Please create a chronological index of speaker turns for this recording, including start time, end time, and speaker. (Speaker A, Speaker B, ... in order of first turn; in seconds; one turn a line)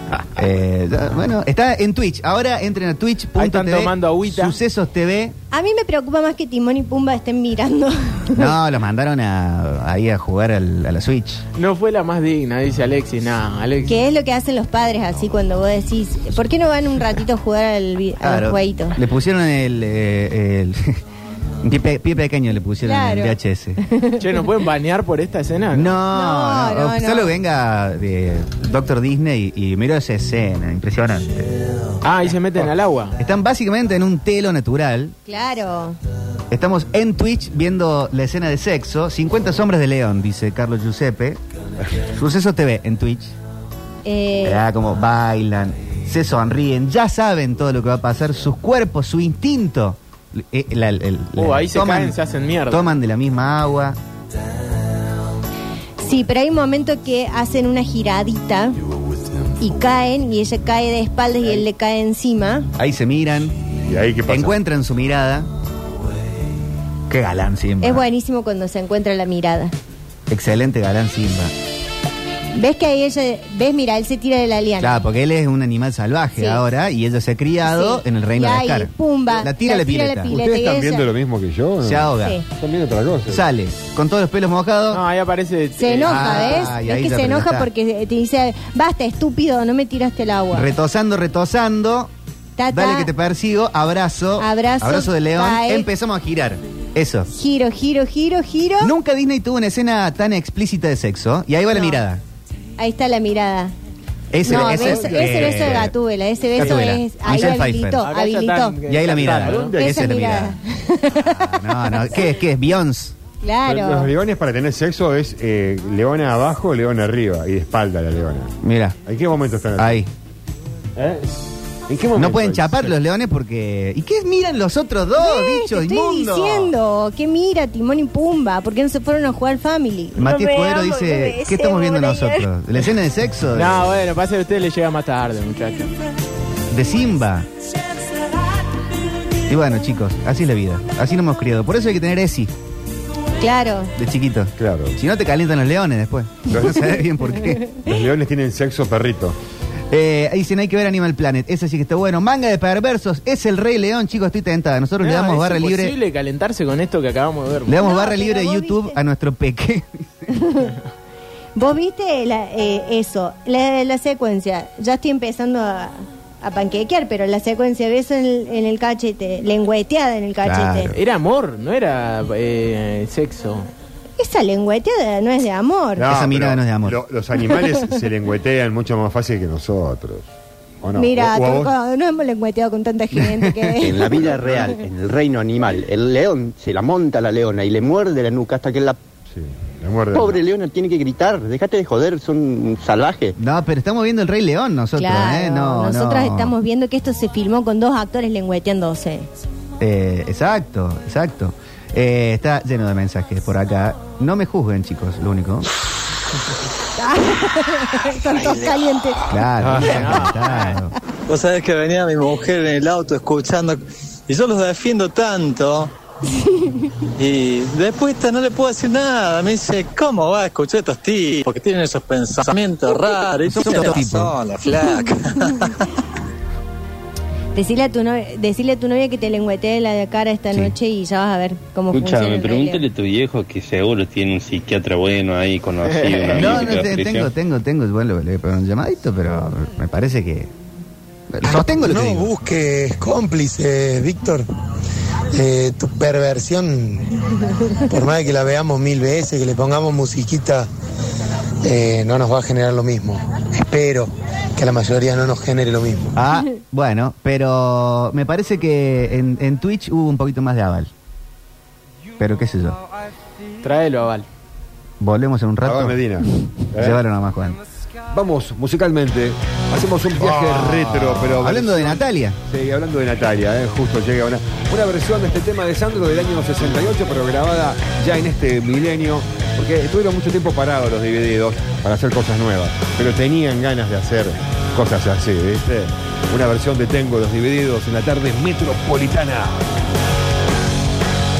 Speaker A: 0.3-5.3
Speaker B: 3.4-4.6
Speaker C: 5.5-8.5
Speaker A: 8.3-11.4
Speaker B: 11.6-13.9
Speaker C: 13.9-19.0
Speaker A: 18.2-21.0
Speaker A: 21.6-23.8
Speaker C: 22.8-24.2
Speaker B: 24.2-26.0
Speaker A: 25.7-31.5
Speaker C: 26.1-27.3
Speaker B: 32.0-33.2
Speaker A: 33.2-35.1
Speaker C: 35.3-36.0
Speaker A: 36.5-41.4
Speaker A: 42.1-43.3
Speaker C: 44.0-44.6
Speaker A: 44.4-52.2
Speaker B: 51.4-52.9
Speaker A: 52.7-54.0
Speaker C: 56.0-58.8
Speaker C: 59.6-62.7
Speaker A: 62.8-63.6
Speaker D: 63.9-64.5
Speaker A: 64.3-65.5
Speaker A: 67.1-68.0
Speaker C: 67.8-69.8
Speaker A: 70.3-71.5
Speaker C: 72.5-75.0
Speaker A: 74.8-80.3
Speaker C: 76.4-76.6
Speaker C: 77.6-81.1
Speaker D: 80.3-83.4
Speaker A: 81.8-82.4
Speaker A: 83.3-85.0
Speaker B: 84.9-86.7
Speaker C: 85.8-90.7
Speaker A: 86.0-87.7
Speaker A: 90.5-92.1
Speaker C: 92.6-93.1
Speaker A: 92.7-97.3
Speaker C: 94.4-95.9
Speaker C: 97.3-98.9
Speaker A: 98.8-102.2
Speaker C: 101.7-102.0
Speaker C: 102.8-103.7
Speaker A: 104.3-105.9
Speaker C: 104.4-108.8
Speaker D: 104.7-105.6
Speaker A: 106.5-108.1
Speaker B: 106.6-106.9
Speaker B: 108.0-109.8
Speaker A: 108.9-110.6
Speaker D: 109.3-110.0
Speaker C: 109.6-112.2
Speaker A: 111.2-113.2
Speaker C: 113.4-114.1
Speaker D: 113.7-120.0
Speaker A: 118.6-119.0
Speaker A: 119.8-120.1
Speaker D: 121.0-121.3
Speaker D: 121.9-122.9
Speaker A: 122.2-126.7
Speaker C: 125.2-132.5
Speaker A: 130.2-133.9
Speaker B: 133.6-135.9
Speaker A: 136.7-137.5
Speaker A: 139.5-142.5
Speaker C: 143.4-143.9
Speaker A: 144.0-147.6
Speaker D: 144.6-145.0
Speaker D: 146.5-146.9
Speaker D: 147.8-149.4
Speaker A: 149.9-155.9
Speaker B: 155.0-157.8
Speaker A: 157.7-160.3
Speaker C: 157.8-159.0
Speaker C: 160.3-160.8
Speaker C: 161.6-170.9
Speaker A: 170.4-171.0
Speaker B: 170.9-173.7
Speaker C: 174.2-176.1
Speaker D: 176.0-180.3
Speaker A: 176.1-177.0
Speaker D: 180.8-181.7
Speaker C: 180.9-184.3
Speaker A: 183.1-184.8
Speaker E: 183.8-189.0
Speaker D: 184.3-184.7
Speaker D: 189.3-190.4
Speaker E: 190.1-193.4
Speaker A: 193.4-196.6
Speaker C: 195.0-199.3
Speaker A: 199.8-205.7
Speaker C: 207.0-209.2
Speaker A: 209.3-210.9
Speaker D: 209.6-210.1
Speaker B: 209.8-210.8
Speaker F: 211.3-215.9
Speaker F: 217.2-225.9
Speaker A: 223.5-224.3
Speaker C: 227.6-232.8
Speaker G: 231.9-237.3
Speaker B: 235.8-236.8
Speaker A: 236.3-240.5
Speaker A: 241.3-242.3
Speaker H: 241.4-244.5
Speaker H: 245.3-247.1
Speaker H: 247.9-250.7
Speaker H: 251.6-256.2
Speaker A: 256.1-260.9
Speaker A: 262.2-262.8
Speaker B: 263.6-264.3
Speaker A: 265.0-266.0
Speaker D: 265.6-267.0
Speaker A: 266.8-267.6
Speaker D: 268.1-289.6
Speaker A: 270.2-272.4